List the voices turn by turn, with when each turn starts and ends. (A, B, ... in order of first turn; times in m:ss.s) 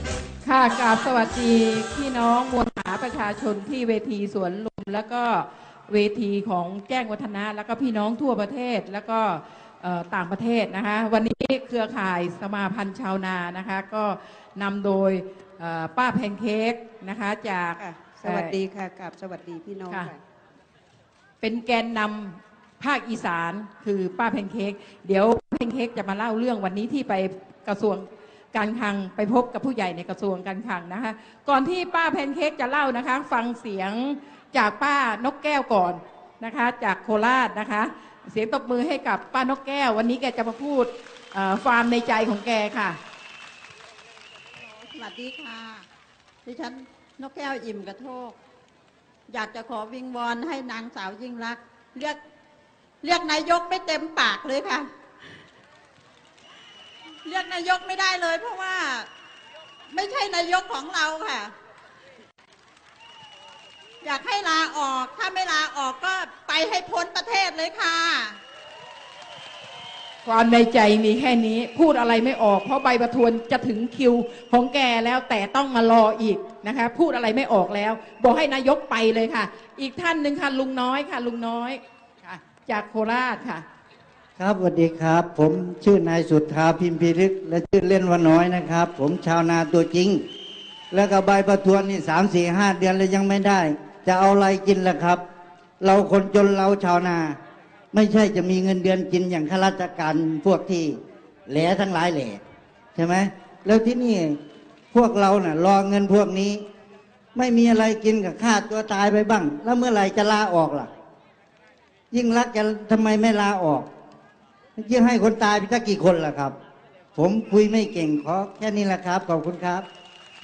0:00.4-0:18.5 A
0:17.8-0:20.2 B
0:21.4-0:43.0 A
0:44.8-0:45.8 C
0:46.4-0:48.3 C
0:49.3-0:52.2 C
0:53.0-0:54.8 C
0:57.2-0:59.1 C
0:59.9-1:01.5 C
1:04.0-1:08.3 C
1:10.2-1:23.6 A
1:24.4-1:30.2 D
1:30.9-1:35.2 D
1:35.8-1:37.4 D
1:37.9-1:42.4 D
1:42.9-1:44.4 D
1:44.9-1:46.6 D
1:47.3-1:50.9 D
1:52.1-1:53.9 D
1:54.8-1:56.6 D
1:57.1-1:59.8 D